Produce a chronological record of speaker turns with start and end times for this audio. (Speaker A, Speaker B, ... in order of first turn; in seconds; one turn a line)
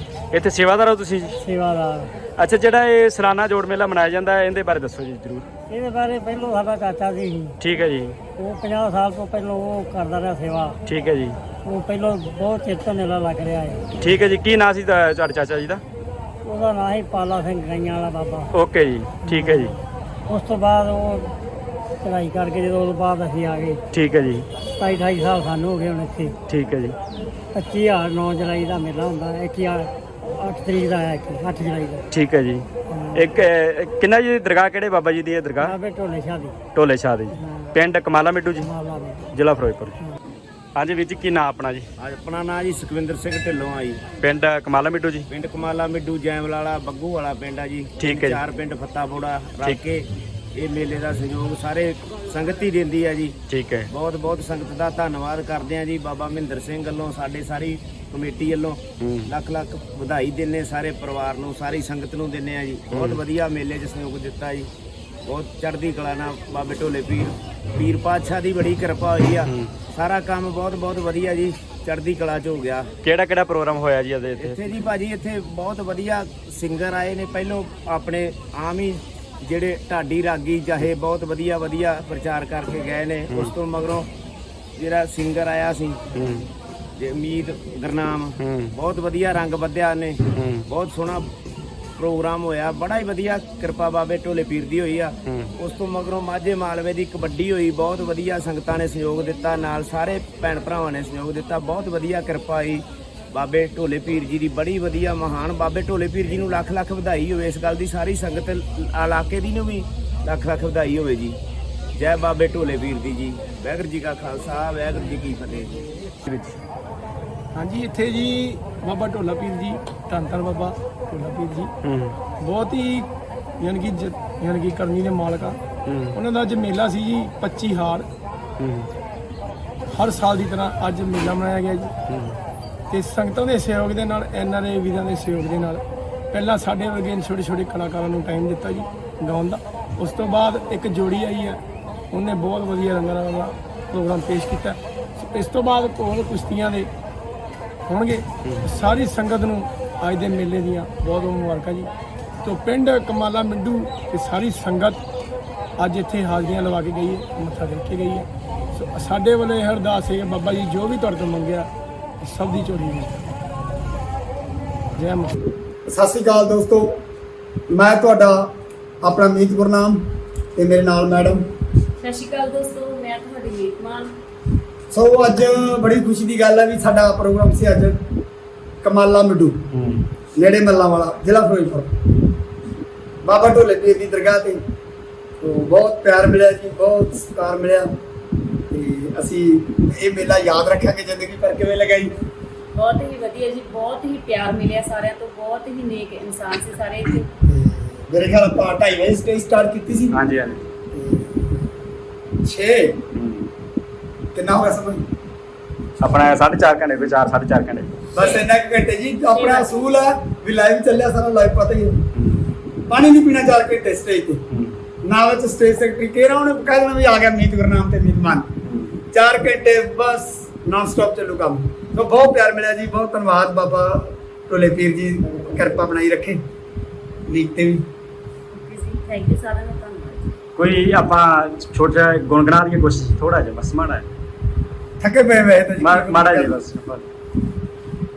Speaker A: 0.3-1.4
Speaker B: 1.4-2.1
Speaker A: 2.4-5.5
Speaker B: 5.7-7.6
Speaker A: 7.6-8.2
Speaker B: 8.4-10.8
Speaker A: 10.9-11.4
Speaker B: 11.6-13.8
Speaker A: 14.0-15.8
Speaker B: 16.4-18.5
Speaker A: 18.5-19.7
Speaker B: 19.2-19.8
Speaker B: 20.3-21.3
Speaker B: 22.0-23.8
Speaker A: 23.9-24.5
Speaker B: 24.6-26.4
Speaker A: 26.5-27.0
Speaker B: 27.5-32.0
Speaker A: 32.1-35.7
Speaker B: 32.9-33.3
Speaker B: 35.6-36.6
Speaker A: 36.8-38.7
Speaker B: 37.4-37.7
Speaker B: 38.6-39.2
Speaker A: 39.3-40.0
Speaker A: 40.8-41.9
Speaker C: 42.0-44.0
Speaker A: 44.2-45.3
Speaker C: 45.3-64.7
Speaker A: 48.0-48.4
Speaker A: 53.5-53.9
Speaker A: 59.0-59.3
Speaker A: 62.9-63.2
Speaker C: 65.3-72.9
Speaker A: 69.5-69.8
Speaker A: 73.0-74.8
Speaker C: 74.4-84.1
Speaker A: 83.3-83.5
Speaker C: 84.8-86.0
Speaker A: 86.1-86.5
Speaker C: 87.0-91.3
Speaker A: 88.4-88.8
Speaker A: 90.3-90.7
Speaker C: 92.0-111.4
Speaker A: 95.3-95.5
Speaker C: 111.9-115.8
Speaker A: 116.3-116.6
Speaker D: 117.5-121.7
Speaker A: 121.8-122.2
Speaker D: 122.3-125.6
Speaker A: 125.9-126.2
Speaker D: 126.1-128.1
Speaker A: 128.6-128.9
Speaker D: 129.9-131.9
Speaker A: 132.1-132.4
Speaker D: 132.9-141.6
Speaker D: 142.1-146.9
Speaker D: 147.9-151.9
Speaker D: 152.4-155.0
Speaker D: 155.8-161.7
Speaker D: 162.2-163.3
Speaker D: 164.9-165.4
Speaker E: 165.9-166.9
Speaker E: 167.7-168.5
Speaker E: 169.0-170.0
Speaker E: 170.6-171.4
Speaker F: 172.0-174.1
Speaker E: 174.9-178.0
Speaker E: 178.8-179.6
Speaker A: 179.7-180.1
Speaker E: 180.4-181.9
Speaker E: 183.2-184.6
Speaker E: 185.4-187.9
Speaker E: 188.7-192.1
Speaker F: 192.8-197.3
Speaker E: 197.5-200.2
Speaker A: 200.1-200.6
Speaker E: 200.9-201.4
Speaker E: 202.4-203.0
Speaker A: 203.2-203.5
Speaker E: 204.3-205.0
Speaker A: 206.0-207.9
Speaker E: 208.1-212.0
Speaker F: 208.2-208.4
Speaker F: 209.3-209.9
Speaker A: 212.2-212.5
Speaker E: 212.9-214.4
Speaker A: 214.5-214.8
Speaker E: 215.1-218.5
Speaker A: 218.7-219.0
Speaker E: 219.1-226.4
Speaker E: 227.3-227.8
Speaker F: 228.6-230.3
Speaker A: 230.6-234.1
Speaker E: 235.0-236.6
Speaker A: 235.8-237.0